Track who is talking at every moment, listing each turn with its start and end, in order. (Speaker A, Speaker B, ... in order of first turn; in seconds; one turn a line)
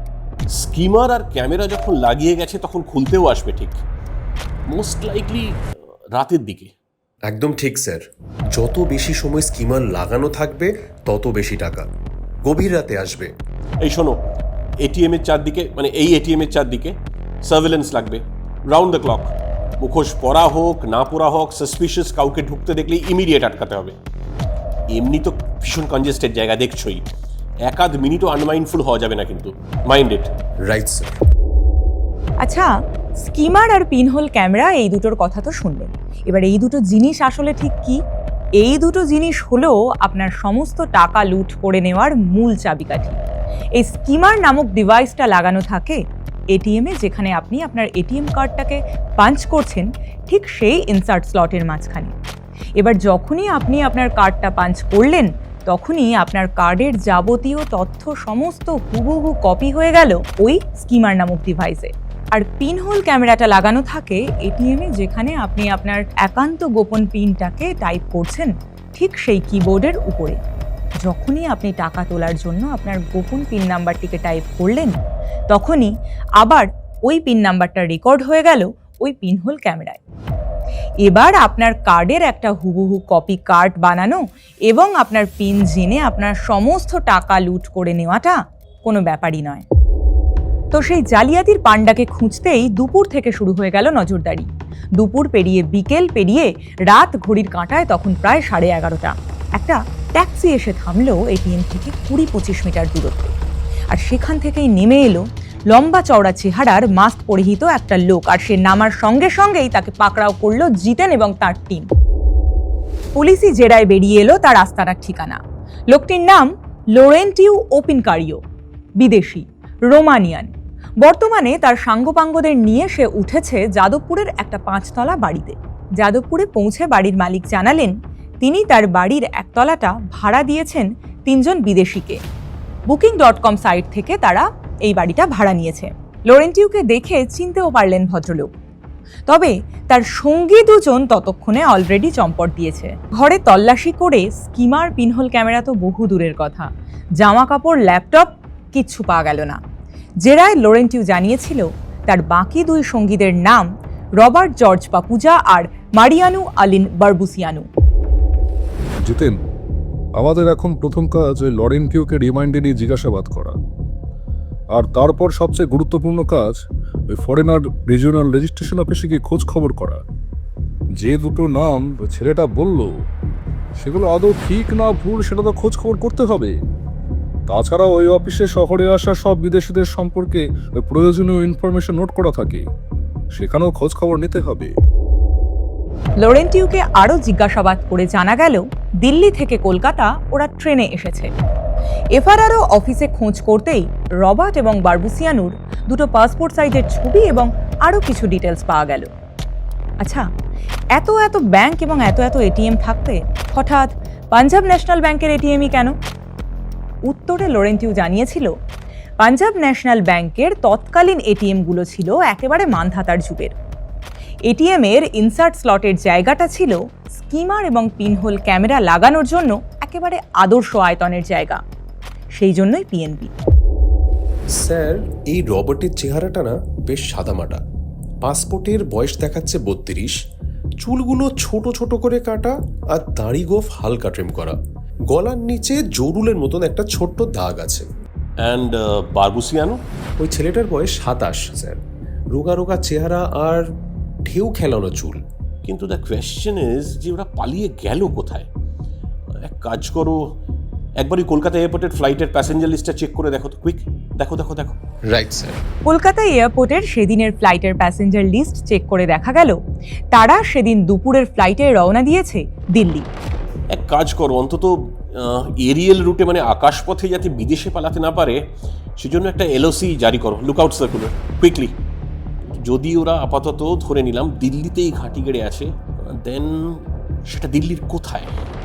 Speaker A: 0.6-3.8
Speaker A: 4.7-5.5
Speaker A: 6.2-6.7
Speaker B: 7.3-8.0
Speaker B: 8.5-11.9
Speaker B: 12.5-13.3
Speaker A: 13.8-14.2
Speaker A: 14.8-16.9
Speaker A: 17.5-23.9
Speaker A: 24.9-27.0
Speaker A: 27.7-30.3
Speaker B: 30.7-31.2
Speaker C: 32.4-38.0
Speaker C: 38.6-43.2
Speaker C: 43.8-46.0
Speaker C: 46.5-52.1
Speaker C: 52.8-70.4
Speaker C: 71.0-74.9
Speaker C: 75.5-80.0
Speaker C: 81.0-89.7
Speaker C: 90.7-103.3
Speaker C: 103.9-111.9
Speaker C: 113.2-118.4
Speaker C: 119.0-132.2
Speaker C: 132.9-138.5
Speaker C: 139.3-146.7
Speaker C: 147.2-149.6
Speaker C: 150.2-153.7
Speaker C: 154.2-157.7
Speaker D: 159.1-159.4
Speaker D: 160.2-163.6
Speaker D: 164.8-170.0
Speaker D: 171.0-172.9
Speaker D: 173.8-176.6
Speaker D: 177.5-182.7
Speaker D: 183.3-184.7
Speaker C: 186.2-191.3
Speaker C: 192.2-199.1
Speaker C: 201.0-205.9
Speaker C: 207.1-208.5
Speaker C: 209.2-213.6
Speaker C: 214.5-221.6
Speaker C: 222.4-223.3
Speaker B: 224.6-227.6
Speaker B: 228.2-230.2
Speaker B: 230.8-234.6
Speaker B: 235.1-237.9
Speaker A: 238.4-239.8
Speaker B: 240.2-241.8
Speaker B: 242.3-243.7
Speaker B: 244.3-245.2
Speaker A: 245.7-248.5
Speaker A: 249.4-250.2
Speaker A: 251.0-254.8
Speaker B: 255.1-255.6
Speaker C: 255.9-259.6
Speaker C: 260.1-263.1
Speaker A: 263.7-268.4
Speaker A: 269.0-271.8
Speaker A: 272.6-278.4